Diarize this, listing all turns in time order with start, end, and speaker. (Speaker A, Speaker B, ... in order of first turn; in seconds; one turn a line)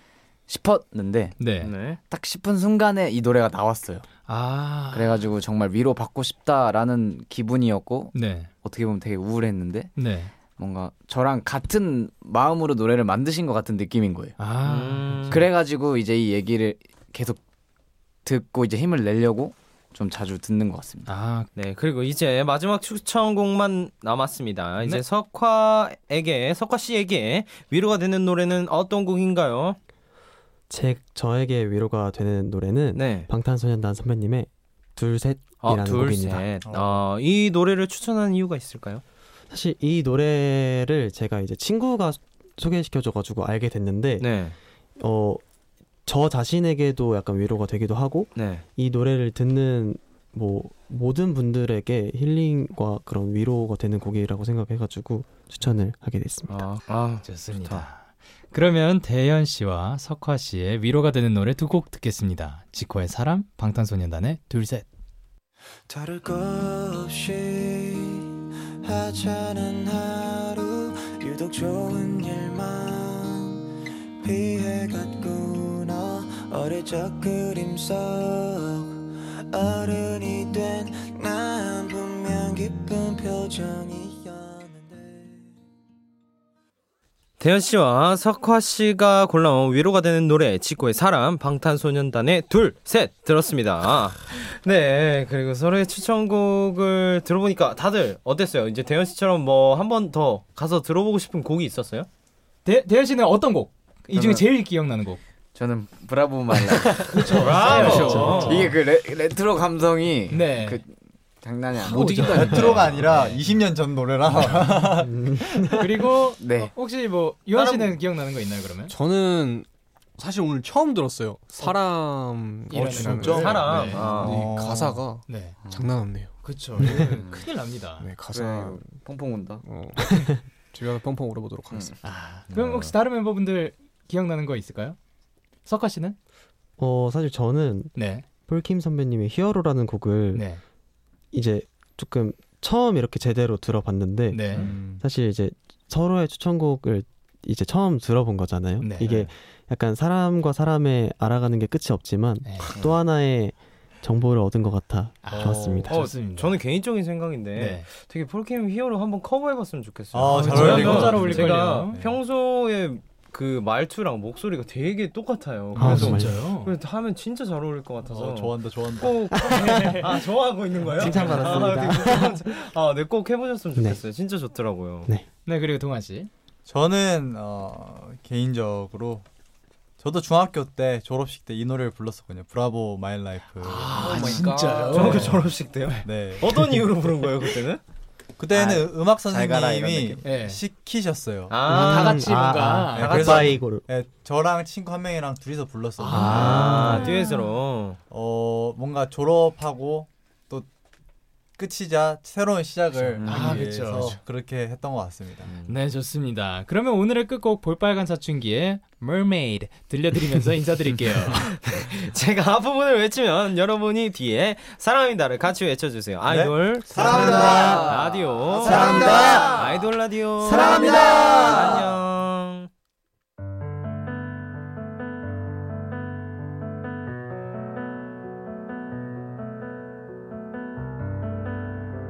Speaker A: 0.5-1.4
Speaker B: 1.4-1.7
Speaker C: 1.6-2.0
Speaker A: 2.1-4.1
Speaker B: 4.3-5.2
Speaker A: 4.9-10.0
Speaker B: 8.1-8.5
Speaker B: 10.0-10.3
Speaker A: 10.5-14.3
Speaker B: 14.4-15.4
Speaker C: 14.6-15.4
Speaker A: 15.3-17.4
Speaker A: 18.2-21.1
Speaker B: 21.1-21.5
Speaker C: 21.6-29.8
Speaker D: 30.7-36.5
Speaker C: 32.9-33.3
Speaker C: 35.6-39.0
Speaker E: 36.6-37.0
Speaker D: 39.5-44.3
Speaker C: 44.2-44.5
Speaker D: 45.0-45.4
Speaker D: 46.0-56.6
Speaker C: 48.4-48.6
Speaker C: 56.5-57.9
Speaker B: 57.2-64.8
Speaker F: 65.9-68.3
Speaker F: 68.8-73.7
Speaker F: 74.2-85.5
Speaker C: 87.4-102.1
Speaker B: 102.6-105.2
Speaker A: 104.1-104.5
Speaker A: 105.5-113.3
Speaker B: 107.1-108.7
Speaker C: 107.3-108.7
Speaker D: 107.6-108.6
Speaker B: 110.3-110.8
Speaker G: 111.8-113.0
Speaker B: 111.8-113.4
Speaker E: 112.3-115.4
Speaker D: 115.0-115.9
Speaker B: 115.8-118.9
Speaker A: 116.4-116.7
Speaker C: 117.5-118.0
Speaker G: 118.9-119.7
Speaker G: 120.2-126.3
Speaker B: 122.7-124.5
Speaker C: 123.1-124.4
Speaker A: 123.8-124.4
Speaker E: 124.2-125.0
Speaker B: 125.2-125.6
Speaker A: 125.6-125.9
Speaker B: 126.4-128.1
Speaker A: 126.8-127.4
Speaker G: 126.8-127.1
Speaker G: 128.0-129.0
Speaker A: 128.3-129.6
Speaker G: 129.6-132.0
Speaker B: 132.0-135.0
Speaker A: 132.5-132.9
Speaker B: 135.7-136.2
Speaker D: 136.8-137.9
Speaker B: 137.9-138.2
Speaker D: 138.5-140.5
Speaker B: 140.3-140.6
Speaker D: 141.3-156.1
Speaker B: 144.3-144.7
Speaker E: 144.5-145.0
Speaker B: 148.8-149.3
Speaker B: 152.4-152.7
Speaker B: 155.2-156.5
Speaker E: 155.4-155.8
Speaker C: 155.9-175.1
Speaker B: 157.5-157.9
Speaker E: 160.1-162.2
Speaker B: 160.3-162.0
Speaker D: 165.7-166.4
Speaker B: 165.8-166.7
Speaker E: 168.1-169.4
Speaker D: 169.4-170.0
Speaker B: 169.5-170.1
Speaker D: 170.9-172.5
Speaker B: 175.4-176.3
Speaker E: 176.7-179.2
Speaker E: 180.0-184.1
Speaker B: 183.6-186.0
Speaker G: 183.9-185.3
Speaker A: 184.1-184.4
Speaker C: 184.9-187.8
Speaker E: 184.9-186.5
Speaker E: 188.4-191.6
Speaker A: 188.5-190.3
Speaker B: 190.2-190.6
Speaker C: 191.5-192.3
Speaker D: 191.7-193.8
Speaker B: 191.7-193.2
Speaker E: 192.9-196.9
Speaker C: 193.0-193.6
Speaker B: 196.0-196.9
Speaker D: 196.1-197.2
Speaker C: 196.3-198.0
Speaker A: 196.5-197.0
Speaker E: 198.1-200.7
Speaker E: 201.6-205.5
Speaker A: 203.1-203.6
Speaker B: 203.2-204.2
Speaker B: 205.7-211.6
Speaker C: 211.3-222.7
Speaker E: 216.2-218.0
Speaker G: 216.9-218.3
Speaker A: 217.0-219.9
Speaker E: 218.5-219.7
Speaker A: 220.4-221.9
Speaker E: 220.4-221.8